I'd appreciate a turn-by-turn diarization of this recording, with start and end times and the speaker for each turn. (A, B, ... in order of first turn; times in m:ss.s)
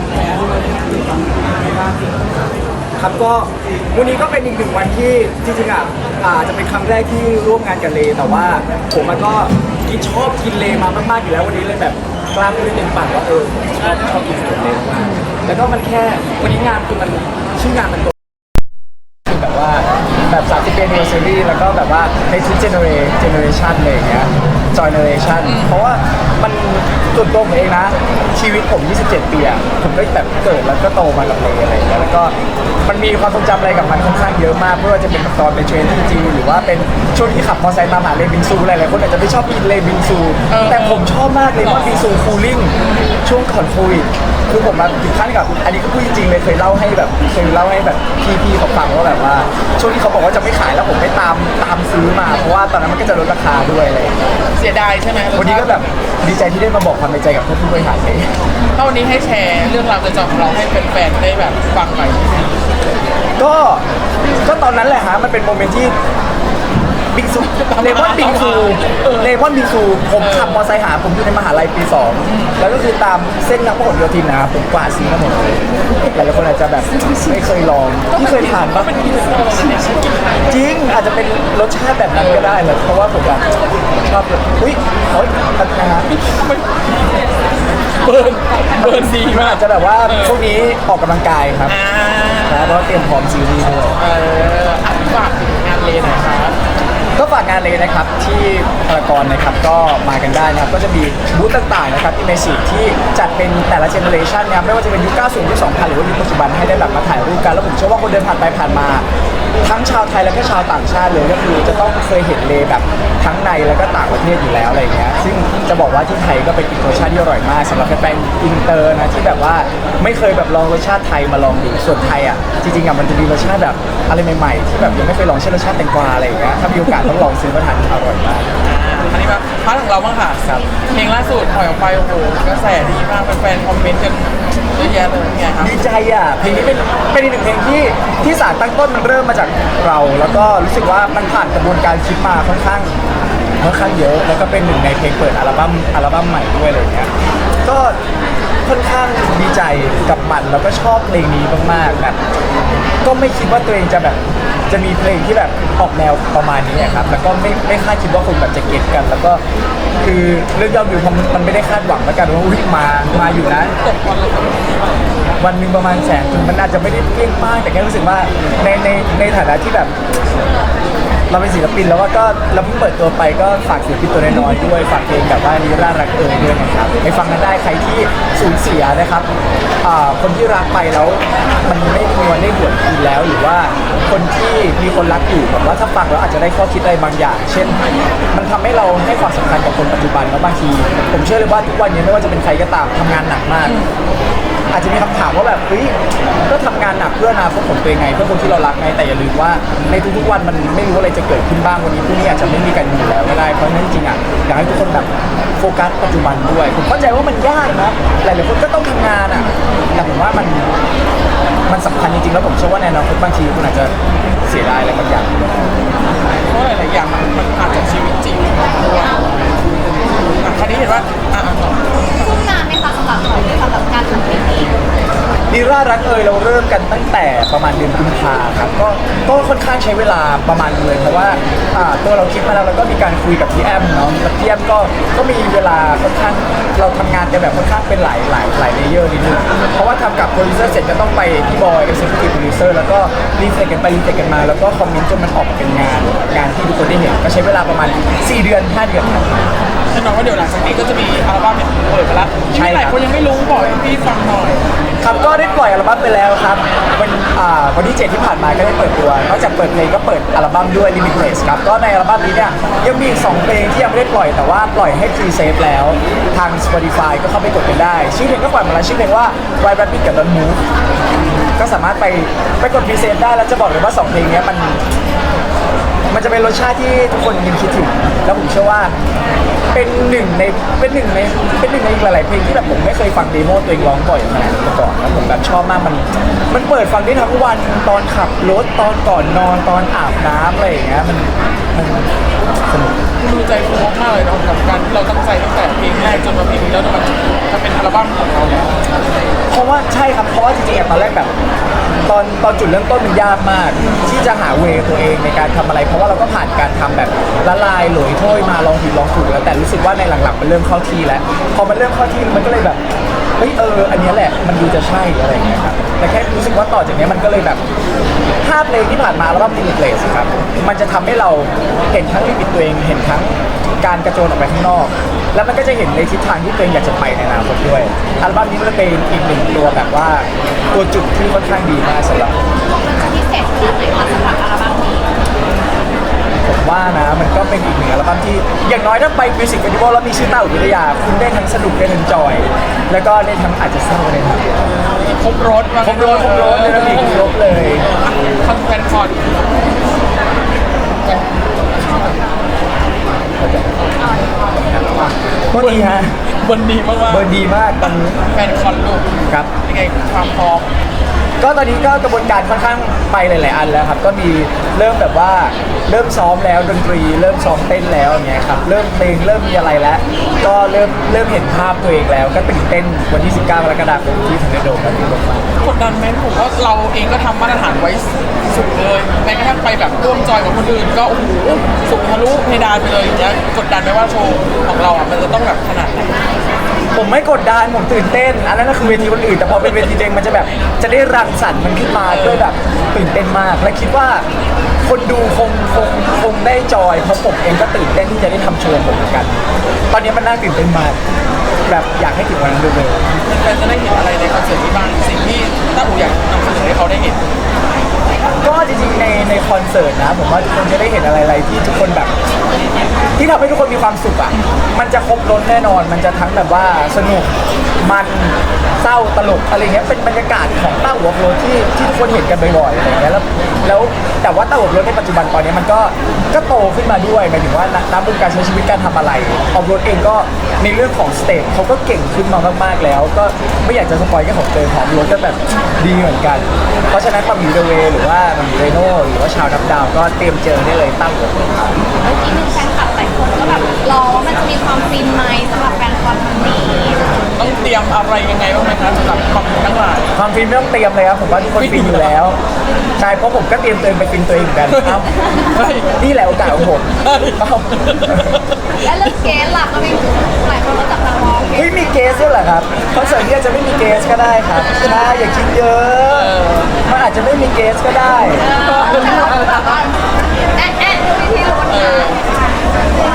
0:00.2-0:00.6 A
0:03.0-0:18.2 B
0:19.3-0:32.3 B
0:25.4-0:25.8 A
0:32.9-0:54.4 B
0:40.5-0:42.1 A
0:42.8-0:43.1 A
0:54.5-0:56.0 A
0:55.3-0:58.4 B
0:58.8-1:02.6 A
1:03.4-1:03.8 B
1:04.4-1:06.0 B
1:07.1-1:18.9 B
1:07.5-1:09.3 A
1:10.2-1:10.7 A
1:12.2-1:12.7 A
1:18.1-1:20.5 A
1:20.5-1:26.1 B
1:22.1-1:22.6 A
1:26.1-1:27.2 A
1:28.0-1:30.4 A
1:28.8-1:31.8 B
1:31.7-1:33.0 A
1:32.5-1:34.0 B
1:34.0-1:36.6 A
1:37.2-1:49.0 B
1:49.6-2:08.5 B
2:08.6-2:15.8 A
2:15.6-2:22.9 B
2:23.6-2:27.1 B
2:27.6-2:28.0 B
2:28.7-2:32.2 B
2:33.0-2:39.4 B
2:36.8-2:37.2 A
2:40.0-2:43.7 B
2:43.3-2:44.9 A
2:45.4-2:49.9 B
2:51.3-2:59.3 B
2:59.8-3:07.8 B
3:08.3-3:13.8 B
3:13.6-3:13.9 A
3:14.7-3:16.0 B
3:16.5-3:30.7 B
3:31.7-3:33.9 B
3:34.4-3:35.5 B
3:36.5-3:39.4 A
3:40.4-3:42.2 A
3:42.2-3:44.9 C
3:45.5-4:09.5 B
4:09.9-4:15.6 A
4:12.5-4:13.0 B
4:15.0-4:30.6 B
4:31.6-4:34.8 B
4:36.1-4:39.0 B
4:39.7-4:52.1 B
4:52.7-4:53.0 B
4:53.2-4:58.9 A
4:59.5-5:01.3 B
5:02.1-5:12.8 B
5:13.4-5:17.6 B
5:18.4-5:32.6 B
5:32.8-5:35.1 C
5:36.4-5:44.6 B
5:44.7-5:49.4 A
5:45.8-5:47.9 B
5:51.0-5:52.2 A
5:53.4-5:53.7 B
5:54.1-5:54.7 C
5:54.8-5:56.2 B
5:55.0-5:59.1 A
5:57.1-5:58.2 B
5:59.6-6:00.7 A
6:01.4-6:15.6 B
6:15.6-6:26.2 A
6:26.9-6:34.3 B
6:32.0-6:32.5 A
6:34.8-6:41.0 B
6:41.7-6:43.1 B
6:43.2-6:47.2 A
6:48.4-6:52.1 B
6:53.2-6:57.3 B
6:57.8-7:21.8 B
7:22.0-7:27.1 C
7:27.4-7:30.1 A
7:30.1-7:32.4 B
7:31.6-7:32.2 A
7:33.0-7:35.1 B
7:34.7-7:39.2 A
7:35.1-7:35.4 C
7:36.0-7:38.4 B
7:38.8-7:41.7 C
7:41.5-7:46.4 B
7:44.6-7:45.1 A
7:46.1-7:46.8 A
7:46.9-7:48.5 B
7:48.2-7:52.4 C
7:48.6-7:49.8 A
7:51.7-7:52.2 A